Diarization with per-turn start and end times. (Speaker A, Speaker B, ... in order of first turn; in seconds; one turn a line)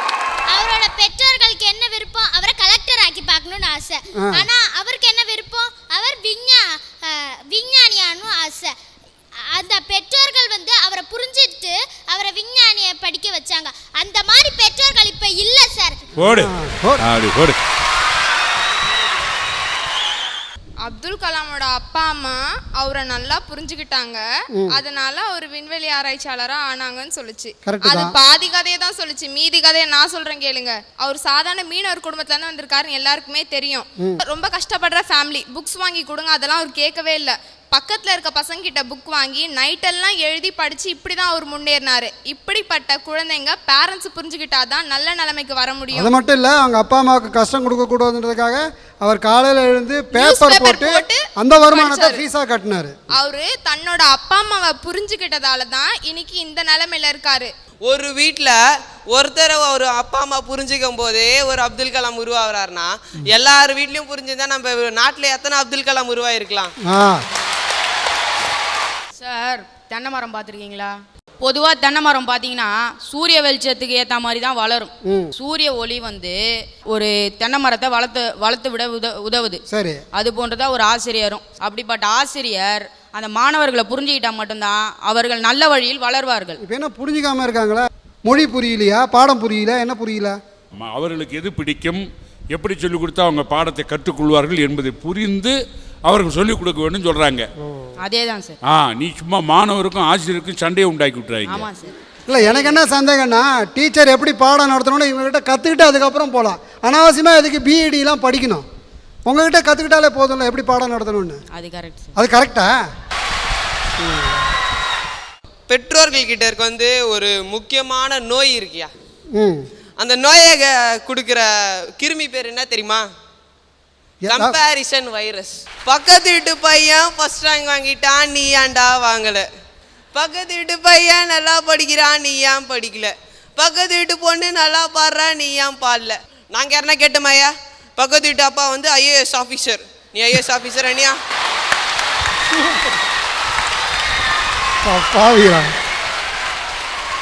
Speaker A: 0.5-8.7
Speaker A: 9.5-16.0
Speaker B: 16.2-17.6
Speaker C: 16.2-17.1
Speaker D: 20.8-46.1
Speaker C: 27.6-28.1
Speaker C: 46.0-53.0
Speaker D: 50.1-52.3
Speaker D: 53.1-57.5
Speaker E: 57.9-58.6
Speaker E: 59.1-66.7
Speaker C: 66.8-67.2
Speaker F: 69.2-79.6
Speaker C: 75.1-75.3
Speaker C: 79.7-80.0
Speaker F: 80.1-86.6
Speaker C: 86.6-90.4
Speaker B: 90.7-97.5
Speaker F: 98.0-98.5
Speaker B: 98.7-101.7
Speaker F: 101.5-102.0
Speaker C: 102.3-108.7
Speaker C: 109.3-111.4
Speaker F: 111.5-112.1
Speaker C: 112.2-112.7
Speaker C: 114.0-114.4
Speaker E: 115.7-118.9
Speaker C: 119.3-119.7
Speaker E: 120.0-123.0
Speaker C: 124.2-124.5
Speaker E: 124.3-129.5
Speaker E: 130.1-141.2
Speaker C: 144.8-145.7